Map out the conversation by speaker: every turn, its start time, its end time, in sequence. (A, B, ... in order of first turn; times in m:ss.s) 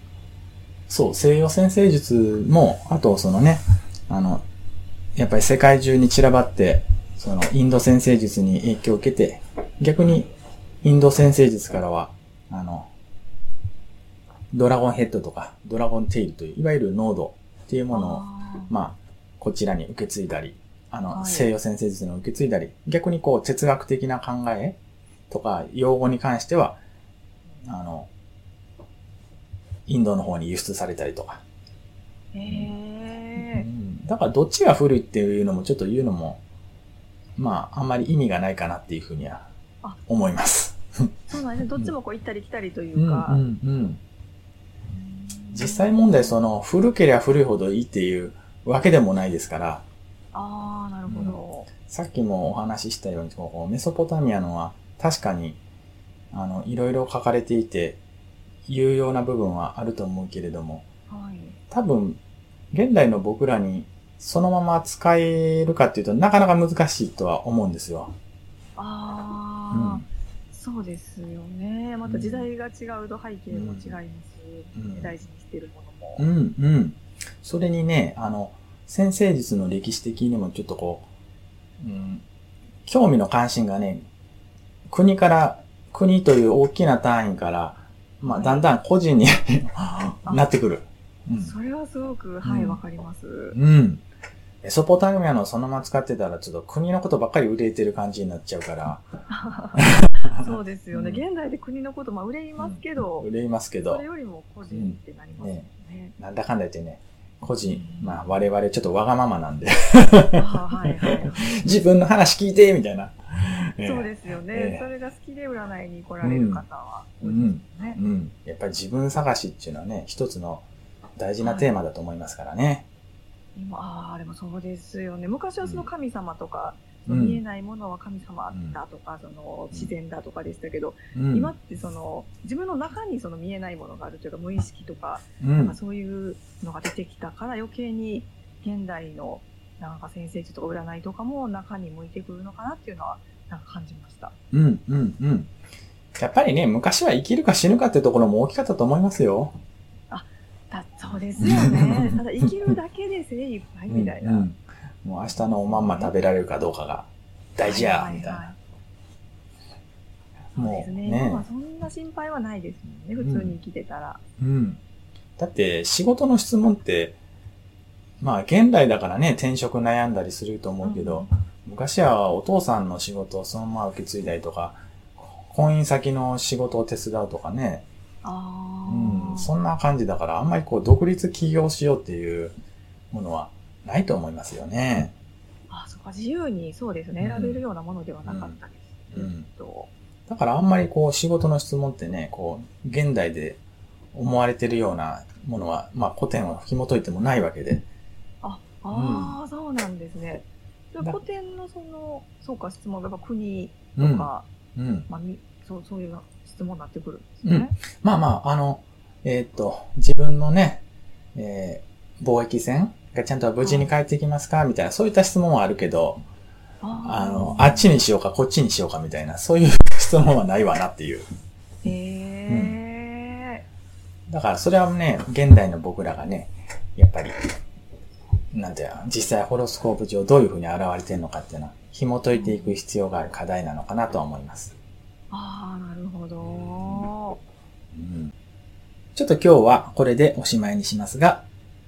0:00.9-0:04.4 A
0:05.2-0:10.3 A
0:10.8-0:12.9 A
0:14.5-0:24.8 A
0:17.9-0:18.7 B
0:21.1-0:21.5 B
0:25.3-0:26.8 A
0:27.6-0:28.1 A
0:29.9-0:31.4 A
0:32.3-0:33.6 B
0:32.4-0:32.7 A
0:33.4-0:36.4 A
0:37.4-0:39.4 A
0:40.1-0:41.1 A
0:41.3-0:43.4 B
0:43.0-0:44.0 A
0:44.9-0:46.4 B
0:45.5-0:49.8 A
0:50.3-0:51.7 B
0:51.1-0:55.6 A
0:56.3-0:58.0 A
0:58.6-1:00.8 A
1:01.1-1:01.6 B
1:01.7-1:02.2 A
1:02.7-1:08.1 A
1:08.8-1:16.2 B
1:09.7-1:10.0 A
1:12.0-1:12.5 A
1:13.5-1:14.0 A
1:14.7-1:15.1 A
1:16.2-1:21.1 A
1:21.8-1:22.2 A
1:22.8-1:24.0 A
1:24.9-1:31.5 A
1:28.2-1:28.6 B
1:31.4-1:33.6 B
1:32.4-1:32.8 A
1:33.5-1:34.0 A
1:34.6-1:39.0 A
1:39.3-1:43.3 B
1:39.8-1:41.2 A
1:42.6-1:44.0 A
1:43.9-1:46.1 B
1:44.7-1:45.6 A
1:46.2-1:54.8 A
1:47.6-1:48.2 B
1:50.3-1:51.6 B
1:53.4-1:58.0 B
1:56.2-1:56.6 A
1:57.2-2:00.6 A
2:01.2-2:02.8 A
2:01.4-2:01.7 B
2:03.6-2:24.3 B
2:05.6-2:05.9 A
2:07.1-2:07.4 A
2:08.5-2:08.8 A
2:11.1-2:11.5 A
2:15.4-2:15.8 A
2:24.5-2:25.5 A
2:26.2-2:29.5 A
2:30.1-2:34.5 B
2:31.4-2:32.5 A
2:33.9-2:38.5 A
2:35.7-2:36.1 B
2:37.6-2:38.6 B
2:40.5-2:41.4 A
2:40.6-2:44.2 B
2:43.2-2:43.6 A
2:44.4-2:44.8 A
2:45.4-2:47.2 A
2:48.2-2:57.8 A
2:50.8-2:51.3 B
2:58.2-2:59.5 B
2:58.9-3:02.6 A
3:03.1-3:05.1 A
3:05.7-3:09.9 B
3:07.2-3:07.6 A
3:08.2-3:08.6 A
3:09.1-3:09.5 A
3:10.3-3:13.6 A
3:14.1-3:17.8 A
3:18.4-3:24.5 B
3:18.9-3:19.4 A
3:24.0-3:25.1 A
3:25.1-3:27.7 B
3:27.4-3:30.8 A
3:31.3-3:36.2 A
3:33.6-3:33.9 B
3:36.8-3:37.9 B
3:37.0-3:41.2 A
3:41.8-3:43.6 B
3:42.5-3:42.8 A
3:44.3-3:47.4 A
3:48.5-3:54.7 A
3:52.3-3:52.8 B
3:55.3-3:57.4 B
3:56.4-3:57.1 A
3:57.9-3:58.3 A
3:59.1-4:01.4 A